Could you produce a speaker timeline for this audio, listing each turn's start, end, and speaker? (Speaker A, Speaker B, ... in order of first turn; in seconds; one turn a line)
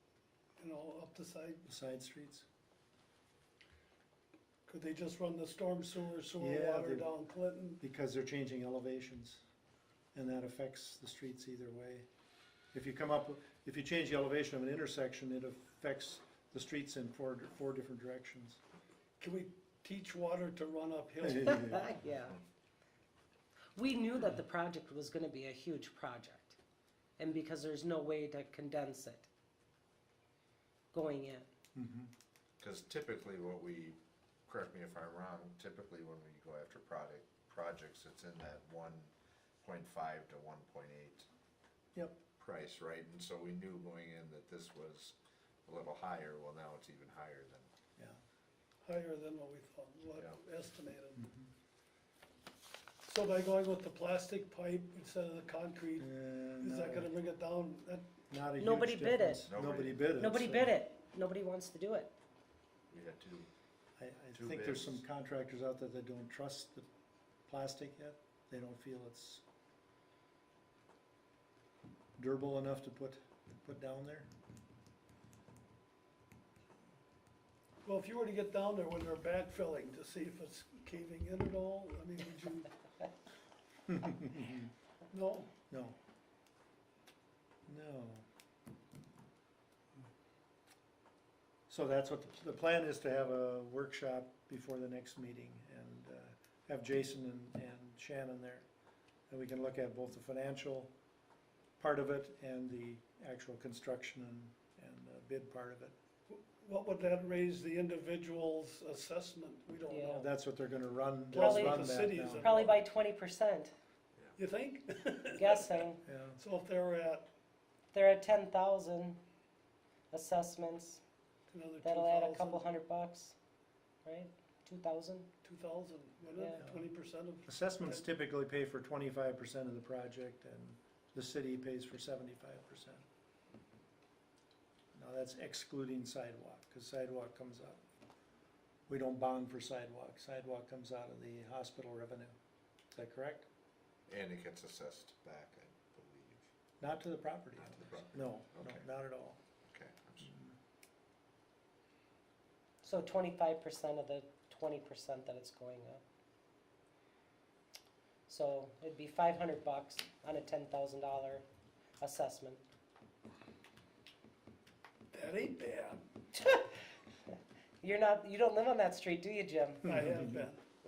Speaker A: 0.6-1.6
Speaker B: 1.6-2.5
Speaker A: 4.7-7.8
Speaker B: 6.4-7.1
Speaker B: 7.8-9.4
Speaker B: 10.1-12.1
Speaker B: 12.7-18.6
Speaker A: 19.2-21.9
Speaker B: 21.2-21.8
Speaker C: 21.5-22.4
Speaker C: 23.7-26.6
Speaker C: 27.2-29.3
Speaker C: 30.9-31.5
Speaker B: 31.7-32.1
Speaker D: 32.6-41.3
Speaker B: 41.9-42.2
Speaker D: 42.4-47.7
Speaker A: 48.8-51.3
Speaker B: 51.2-51.5
Speaker A: 53.0-58.1
Speaker B: 56.0-57.1
Speaker B: 58.3-60.8
Speaker C: 58.6-59.5
Speaker D: 59.5-60.2
Speaker C: 60.2-62.1
Speaker D: 62.9-63.5
Speaker B: 64.0-66.9
Speaker D: 64.3-65.0
Speaker B: 67.5-69.4
Speaker B: 72.2-74.3
Speaker A: 77.8-82.7
Speaker B: 83.9-84.7
Speaker A: 85.1-85.5
Speaker B: 85.7-86.0
Speaker B: 87.7-88.2
Speaker B: 91.7-98.7
Speaker B: 99.3-100.9
Speaker B: 101.8-105.9
Speaker A: 106.3-110.3
Speaker C: 109.9-110.2
Speaker B: 110.1-112.6
Speaker A: 111.3-112.9
Speaker C: 111.3-113.7
Speaker A: 114.3-115.8
Speaker C: 115.4-116.0
Speaker B: 116.0-116.4
Speaker A: 116.4-117.3
Speaker C: 117.9-119.2
Speaker C: 120.1-121.0
Speaker A: 121.5-122.7
Speaker C: 121.8-123.3
Speaker C: 124.0-125.3
Speaker A: 125.4-128.1
Speaker B: 126.6-126.9
Speaker B: 127.5-133.0
Speaker B: 134.9-137.8
Speaker B: 138.9-142.3
Speaker B: 142.9-143.5
Speaker D: 144.1-146.5
Speaker B: 146.8-149.4
Speaker D: 147.5-148.9
Speaker D: 149.6-150.3
Speaker B: 150.2-150.6
Speaker C: 152.8-156.0
Speaker C: 158.3-161.4
Speaker C: 162.0-162.6
Speaker A: 165.1-166.0
Speaker C: 166.4-166.7
Speaker C: 167.8-170.0
Speaker A: 169.8-170.6
Speaker B: 169.9-170.3